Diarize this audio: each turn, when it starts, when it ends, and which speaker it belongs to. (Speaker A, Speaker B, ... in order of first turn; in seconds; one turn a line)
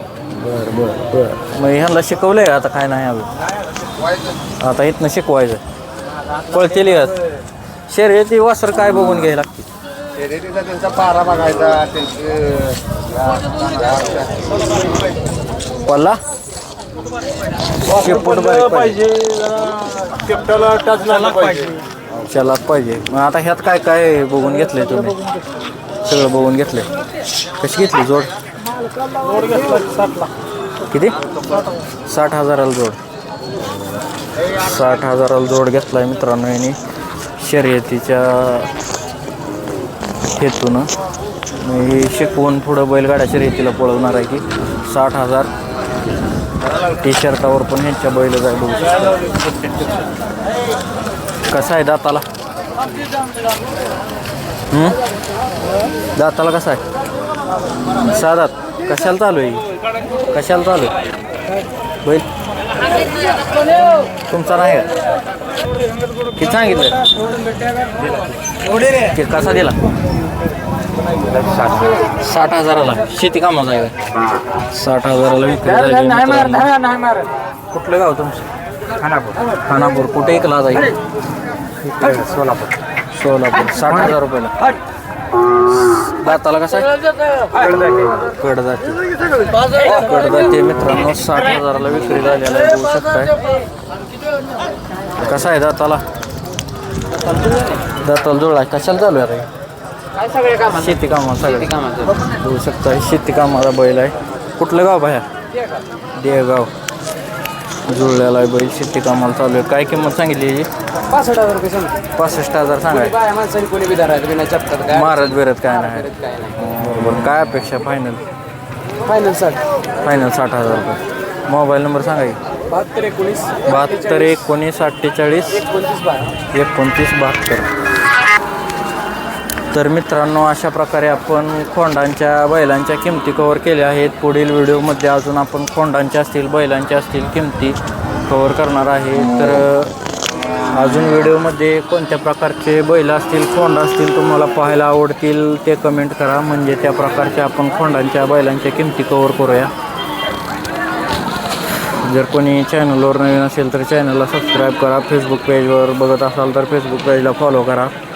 Speaker A: 0.3-3.3
Speaker A: 4.6-5.6
Speaker A: 6.5-7.2
Speaker A: 7.9-9.7
Speaker B: 10.2-12.7
Speaker B: 13.6-14.3
Speaker A: 15.8-16.2
Speaker A: 17.9-19.1
Speaker C: 19.3-21.8
Speaker B: 20.8-21.6
Speaker A: 22.3-25.3
Speaker A: 26.1-26.9
Speaker A: 27.6-28.3
Speaker C: 29.1-30.3
Speaker A: 30.9-31.2
Speaker A: 32.1-33.0
Speaker A: 34.6-36.8
Speaker A: 37.4-38.7
Speaker A: 40.3-40.9
Speaker A: 41.6-45.5
Speaker A: 46.9-49.3
Speaker A: 51.5-52.2
Speaker A: 54.7-55.0
Speaker A: 56.2-56.8
Speaker A: 58.0-59.6
Speaker A: 60.3-60.9
Speaker A: 64.3-64.9
Speaker A: 66.4-67.0
Speaker A: 68.9-69.8
Speaker A: 72.2-74.0
Speaker A: 74.7-76.8
Speaker C: 76.7-77.3
Speaker A: 77.7-78.5
Speaker A: 79.7-80.9
Speaker C: 82.1-82.5
Speaker A: 83.1-84.5
Speaker A: 85.9-86.9
Speaker A: 88.3-89.0
Speaker A: 89.8-93.4
Speaker A: 95.2-96.0
Speaker A: 98.0-99.5
Speaker A: 100.5-105.3
Speaker A: 106.2-106.7
Speaker A: 107.9-110.7
Speaker C: 111.1-112.0
Speaker A: 112.1-113.2
Speaker C: 113.3-114.9
Speaker A: 114.8-118.2
Speaker C: 119.0-119.6
Speaker A: 120.0-122.4
Speaker C: 122.7-123.7
Speaker A: 123.6-125.7
Speaker C: 125.7-126.3
Speaker A: 126.5-127.7
Speaker A: 129.7-139.9
Speaker A: 140.7-149.7
Speaker A: 152.0-157.9